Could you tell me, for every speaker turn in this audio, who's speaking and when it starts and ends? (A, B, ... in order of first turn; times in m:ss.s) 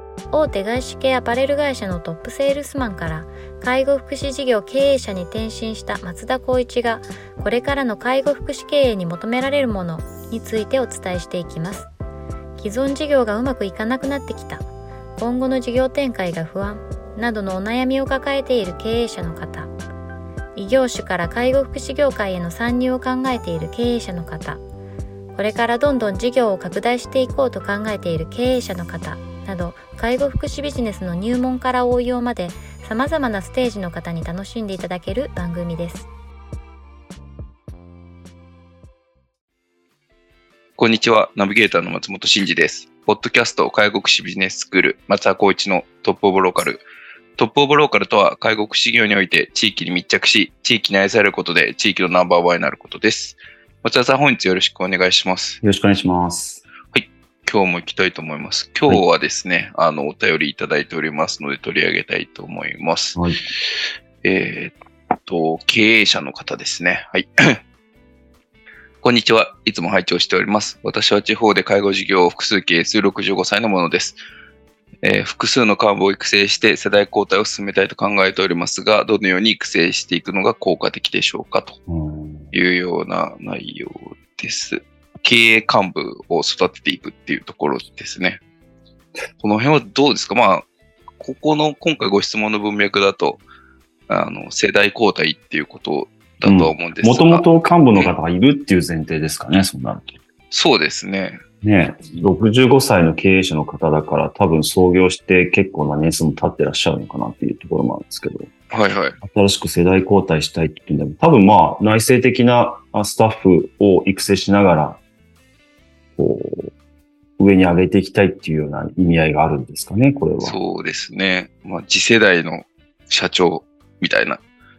0:00.3-0:11.9 A
0:12.6-0:14.7 A
0:15.2-0:19.7 A
0:20.6-0:24.6 A
0:25.3-0:36.1 A
0:40.8-0:46.8 B
0:47.4-0:55.6 B
0:55.6-0:56.6 C
0:56.9-1:03.2 B
1:03.2-1:03.4 C
1:04.2-1:07.6 B
1:09.0-1:14.2 B
1:15.0-1:21.8 B
1:21.9-1:22.5 C
1:22.5-1:28.4 B
1:29.4-1:30.7 B
1:31.2-1:33.4 B
1:34.1-1:38.1 B
1:36.4-1:40.2 C
1:40.5-1:41.4 B
1:41.6-1:48.5 C
1:48.7-1:49.2 B
1:49.2-1:55.0 C
1:56.2-1:56.7 C
1:57.4-2:00.6 C
2:00.4-2:04.4 B